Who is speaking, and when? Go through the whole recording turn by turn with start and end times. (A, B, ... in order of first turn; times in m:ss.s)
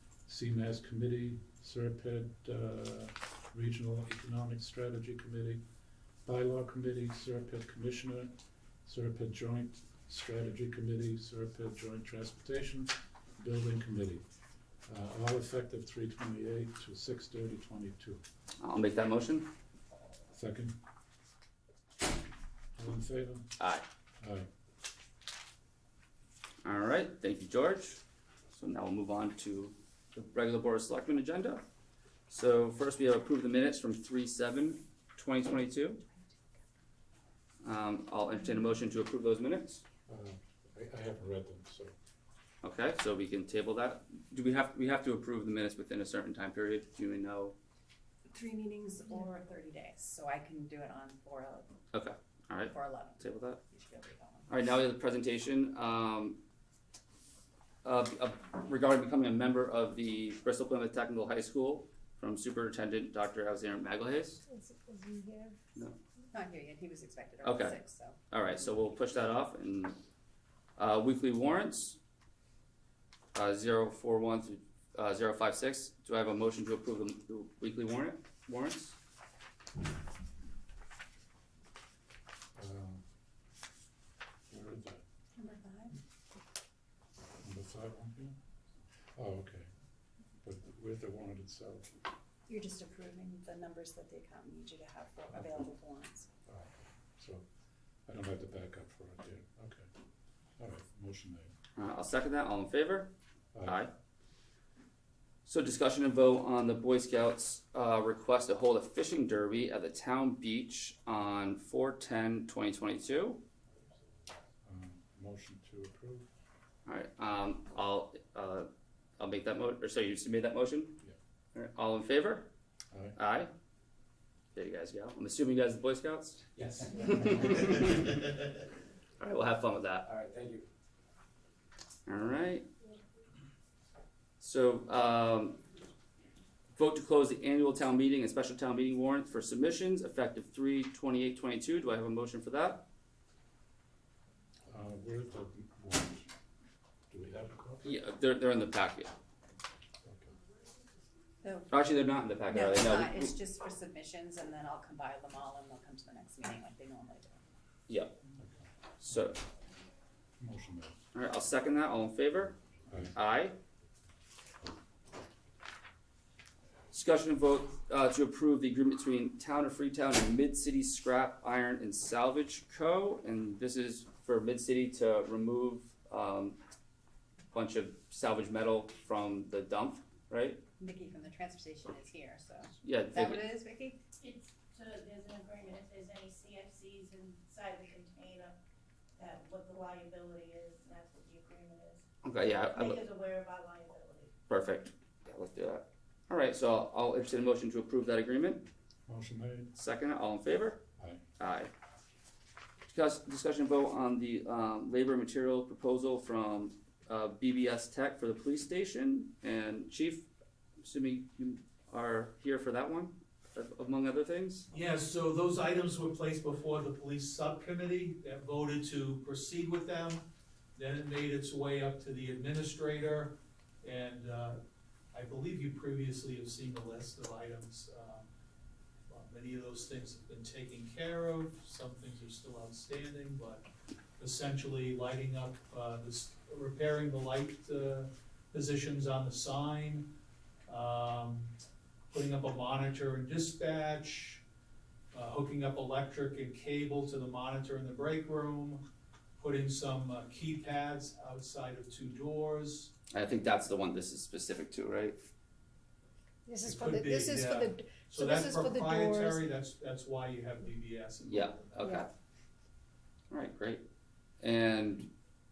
0:00.3-0:05.6 A
0:06.2-0:08.3 A
0:08.8-0:14.2 A
0:14.9-0:18.2 A
0:18.6-0:19.5 B
0:20.3-0:20.7 A
0:22.8-0:23.5 A
0:23.6-0:23.8 B
0:24.2-0:24.5 A
0:26.6-0:28.0 B
0:28.5-0:31.6 B
0:32.3-0:36.0 B
0:37.6-0:39.8 B
0:40.1-0:42.0 A
0:42.6-0:47.6 B
0:48.3-0:51.7 C
0:51.9-0:53.6 B
0:52.6-0:54.6 C
0:54.5-0:56.4 B
0:57.8-1:04.4 B
1:04.5-1:05.6 D
1:06.3-1:08.2 C
1:07.4-1:07.8 B
1:08.3-1:10.0 B
1:10.8-1:12.0 B
1:13.4-1:19.0 B
1:22.6-1:23.0 A
1:24.5-1:25.0 A
1:25.4-1:26.0 C
1:27.4-1:28.4 A
1:29.2-1:29.7 A
1:30.4-1:31.9 A
1:32.5-1:36.3 C
1:36.5-1:37.4 A
1:38.1-1:39.9 A
1:40.6-1:41.6 A
1:41.8-1:43.1 B
1:43.5-1:43.8 A
1:43.6-1:43.9 B
1:45.5-1:53.4 B
1:54.6-1:56.3 A
1:56.9-1:58.7 B
1:59.2-2:01.0 B
2:01.6-2:02.5 B
2:02.9-2:03.2 A
2:03.2-2:03.5 B
2:04.6-2:06.5 B
2:06.6-2:07.9 E
2:07.0-2:07.9 B
2:09.2-2:10.1 B
2:10.1-2:10.7 E
2:12.1-2:12.6 B
2:14.4-2:15.6 B
2:16.8-2:22.8 B
2:24.7-2:26.3 A
2:27.1-2:27.9 A
2:27.8-2:29.1 B
2:30.0-2:30.3 A
2:31.4-2:31.7 C
2:31.7-2:33.4 B
2:32.5-2:37.4 C
2:37.9-2:38.2 B
2:38.4-2:38.7 A
2:39.0-2:39.4 B
2:40.4-2:41.0 A
2:41.1-2:42.6 B
2:43.2-2:43.6 B
2:46.9-2:56.6 B
2:57.5-3:00.6 B
3:00.8-3:04.0 C
3:02.8-3:03.5 B
3:04.2-3:08.6 F
3:09.2-3:12.0 F
3:12.2-3:13.0 B
3:12.7-3:14.3 F
3:14.5-3:18.7 B
3:19.1-3:19.7 A
3:19.7-3:20.8 B
3:21.4-3:21.7 B
3:22.9-3:30.3 B
3:30.8-3:34.7 B
3:34.7-3:44.6 G
3:45.1-3:48.3 G
3:49.1-3:53.7 G
3:54.2-4:00.1 G
4:00.7-4:01.6 G
4:02.1-4:04.4 G
4:05.1-4:12.9 G
4:13.1-4:15.2 B
4:16.5-4:19.5 D
4:16.6-4:21.9 G
4:21.2-4:22.1 B
4:21.8-4:22.1 D
4:23.3-4:23.8 B
4:24.4-4:25.1 B